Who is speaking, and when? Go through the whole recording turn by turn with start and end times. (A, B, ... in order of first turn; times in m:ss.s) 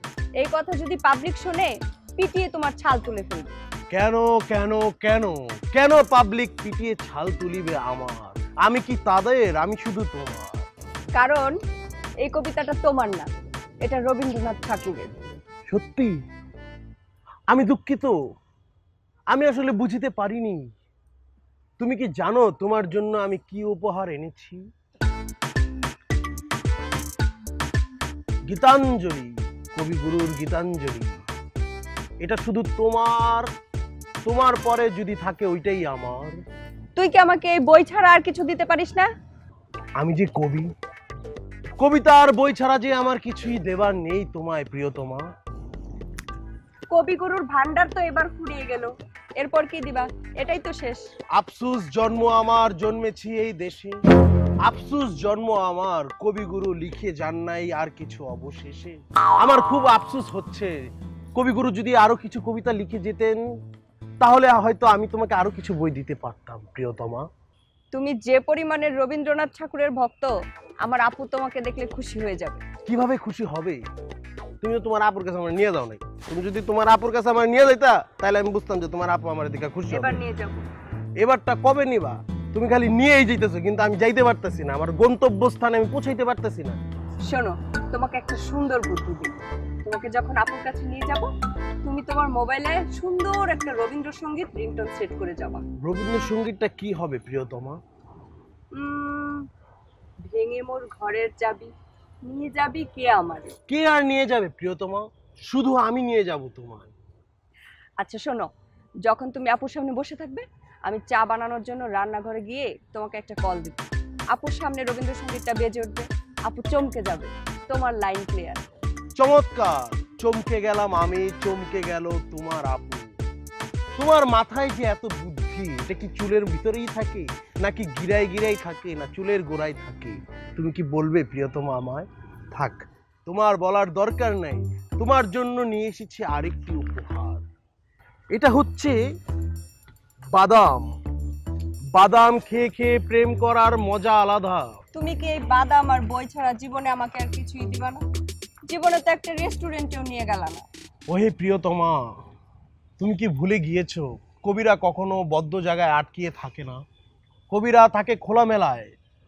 0:00.4-0:03.6 A
0:03.9-0:10.7 B
0:11.2-0:11.6 A
0:12.2-0:13.3 A
0:13.8-0:15.1 A
0:15.7-0:16.2 B
0:17.5-0:18.2 B
0:19.3-0:20.6 B
0:21.8-0:24.6 B
0:28.5-0:31.2 B
0:32.2-0:33.5 B
0:34.2-0:36.4 B
0:37.0-0:39.1 A
0:40.0-0:40.7 B
0:41.8-0:45.3 B
0:46.9-0:51.1 A
0:51.4-0:54.0 B
0:54.6-1:00.8 B
1:01.4-1:03.4 B
1:04.2-1:07.3 B
1:07.9-1:12.6 A
1:12.9-1:13.8 B
1:14.6-1:20.2 B
1:19.9-1:20.6 A
1:21.2-1:26.8 B
1:27.3-1:29.3 A
1:29.8-1:31.3 A
1:31.8-1:35.6 A
1:35.8-1:37.8 B
1:38.8-1:39.5 A
1:40.2-1:41.7 A
1:42.3-1:43.6 A
1:43.7-1:46.9 B
1:48.0-1:48.5 A
1:49.0-1:58.7 A
1:59.2-2:03.1 B
2:04.0-2:17.4 B
2:18.3-2:19.0 B
2:20.3-2:20.9 B
2:21.9-2:24.7 B
2:25.0-2:28.0 A
2:28.7-2:30.7 A
2:31.1-2:32.0 B
2:33.0-2:36.8 B
2:37.5-2:38.9 B